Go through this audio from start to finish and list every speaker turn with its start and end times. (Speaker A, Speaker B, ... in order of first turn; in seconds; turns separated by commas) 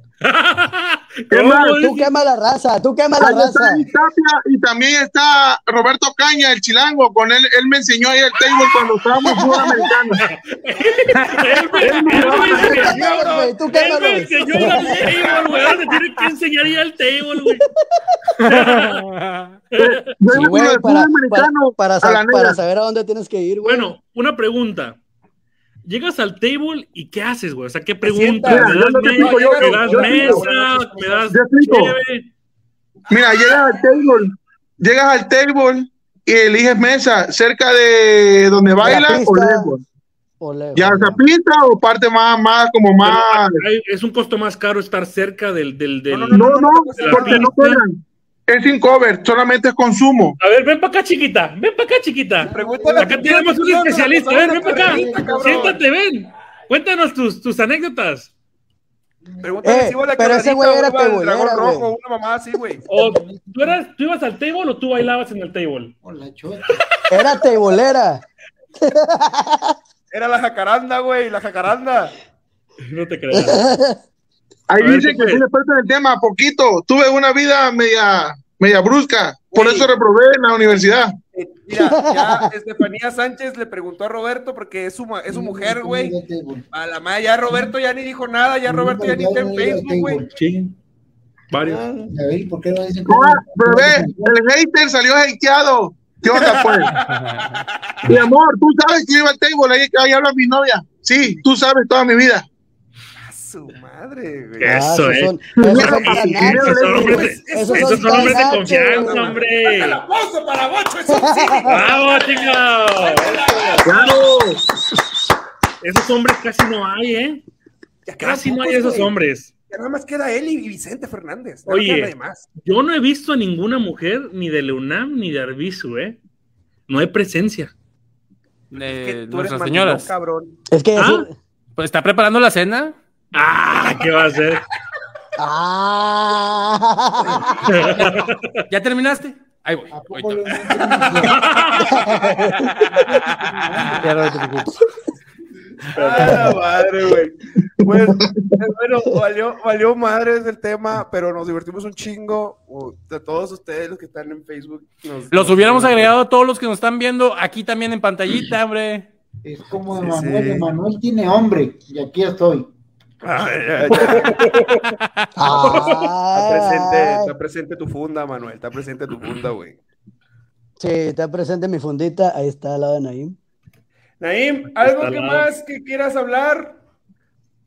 Speaker A: 0.2-2.1, Speaker B: 1.3-1.8, Speaker C: 1.7-3.8, Speaker B: 3.2-10.2, Speaker C: 9.2-9.9, Speaker A: 10.3-17.7, Speaker D: 10.7-16.2, Speaker B: 11.8-12.8, Speaker C: 12.3-15.1, Speaker E: 18.4-19.5, Speaker A: 18.4-19.1, Speaker A: 19.7-20.1, Speaker B: 19.8-22.6, Speaker C: 20.3-23.9, Speaker A: 23.6-25.0, Speaker A: 25.8-32.3, Speaker D: 28.0-31.3, Speaker B: 28.5-30.4, Speaker B: 31.3-31.9, Speaker D: 33.1-34.1, Speaker B: 33.1-39.8, Speaker C: 38.8-39.7, Speaker C: 40.4-41.2, Speaker B: 40.8-43.6, Speaker A: 43.0-47.8, Speaker D: 46.1-47.5, Speaker B: 46.3-50.4, Speaker A: 50.4-58.3, Speaker F: 52.4-53.4, Speaker D: 52.4-55.8, Speaker F: 54.5-55.8, Speaker F: 59.2-59.7, Speaker D: 59.4-62.8, Speaker C: 59.6-61.9, Speaker F: 62.9-63.8, Speaker A: 62.9-65.9, Speaker F: 66.0-66.8, Speaker C: 67.1-68.2, Speaker C: 68.8-69.7, Speaker D: 70.1-72.1, Speaker A: 72.9-73.6, Speaker C: 73.3-74.0, Speaker B: 74.7-81.1, Speaker A: 74.8-75.4, Speaker D: 79.5-79.9, Speaker D: 81.3-86.1, Speaker C: 81.7-82.4, Speaker F: 85.3-86.6, Speaker D: 86.7-90.2, Speaker F: 88.7-90.4, Speaker A: 90.3-90.7, Speaker A: 91.5-91.8, Speaker D: 91.6-92.1, Speaker F: 92.1-94.3, Speaker B: 93.0-96.9, Speaker D: 96.2-98.0, Speaker E: 97.1-97.6, Speaker B: 98.0-102.5, Speaker D: 103.2-104.8, Speaker A: 104.6-110.0, Speaker C: 104.6-106.8, Speaker B: 105.6-107.3, Speaker D: 106.9-114.3, Speaker C: 107.5-109.3, Speaker C: 111.1-111.8, Speaker A: 111.6-114.0, Speaker B: 113.8-114.6, Speaker A: 115.8-117.4, Speaker D: 118.0-119.1, Speaker A: 118.2-119.5, Speaker D: 119.7-122.5, Speaker A: 121.7-126.2, Speaker A: 126.9-127.7, Speaker E: 128.7-130.1, Speaker D: 128.7-130.6, Speaker C: 130.7-131.3, Speaker A: 130.9-131.2, Speaker E: 131.8-132.9, Speaker A: 133.3-134.6, Speaker C: 135.4-137.7, Speaker A: 137.7-138.6, Speaker E: 138.7-140.7, Speaker F: 139.9-141.5, Speaker D: 140.9-142.3, Speaker A: 141.2-142.1, Speaker C: 142.0-142.5, Speaker F: 142.0-142.3, Speaker E: 142.7-144.8, Speaker F: 143.0-144.1, Speaker D: 145.9-156.2, Speaker A: 146.0-146.5, Speaker B: 147.8-148.5, Speaker E: 155.3-159.1, Speaker F: 159.4-162.7, Speaker D: 159.9-160.7, Speaker D: 163.2-164.7, Speaker A: 164.1-164.8, Speaker E: 164.9-165.3, Speaker C: 165.4-167.3, Speaker D: 165.5-169.8, Speaker A: 165.6-165.9, Speaker C: 170.8-173.3, Speaker D: 174.2-176.8, Speaker A: 174.8-175.5